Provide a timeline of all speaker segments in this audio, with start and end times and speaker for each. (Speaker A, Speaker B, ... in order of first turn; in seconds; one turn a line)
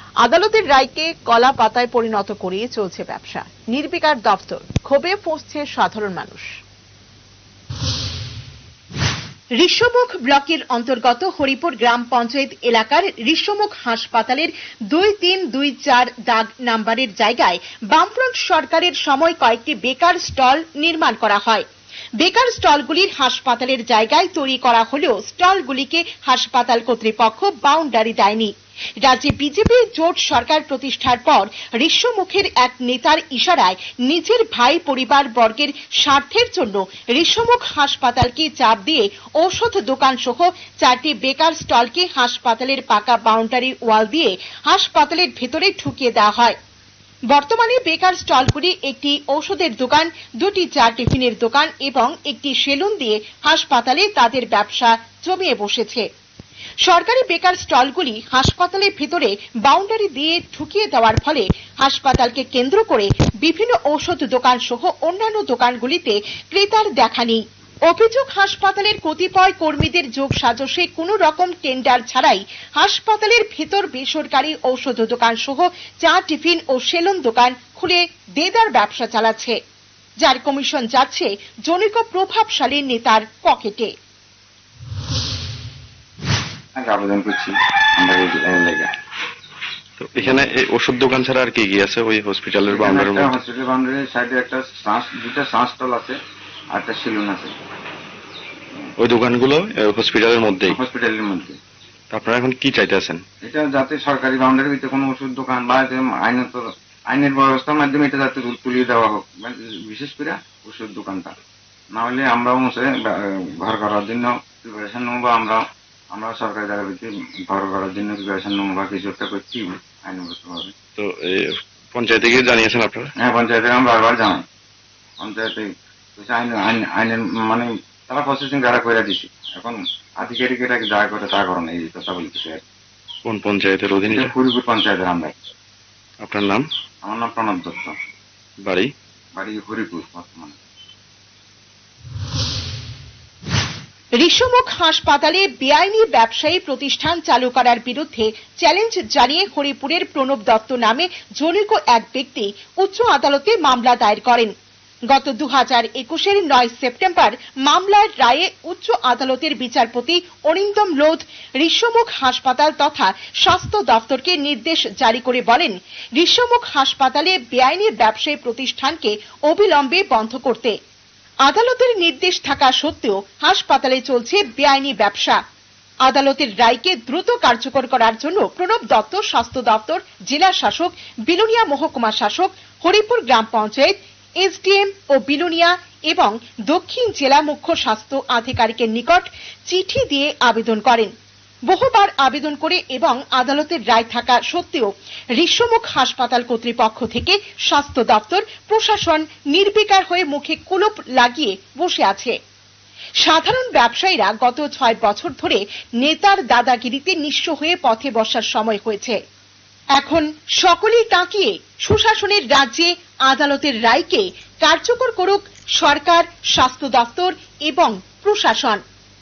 Speaker A: 0.2-6.5
Speaker A: 9.6-21.6
Speaker A: 22.2-28.5
Speaker A: 29.0-46.6
Speaker A: 47.3-56.0
Speaker A: 56.8-79.6
Speaker A: 80.2-83.9
Speaker B: 86.8-88.9
Speaker C: 90.0-93.3
Speaker B: 90.2-90.4
Speaker B: 92.7-96.2
Speaker B: 96.7-97.5
Speaker C: 99.0-100.8
Speaker B: 100.7-101.6
Speaker C: 102.1-103.2
Speaker B: 103.4-111.3
Speaker B: 111.9-115.6
Speaker B: 116.1-120.7
Speaker C: 121.0-123.1
Speaker B: 123.2-124.4
Speaker B: 125.2-132.6
Speaker C: 133.3-134.3
Speaker B: 134.1-135.4
Speaker C: 136.2-136.6
Speaker B: 137.0-137.9
Speaker B: 139.4-140.6
Speaker A: 144.2-154.5
Speaker A: 155.1-170.7
Speaker A: 171.5-175.4
Speaker A: 176.1-191.1
Speaker A: 191.7-202.3
Speaker A: 203.2-209.2
Speaker A: 210.0-218.8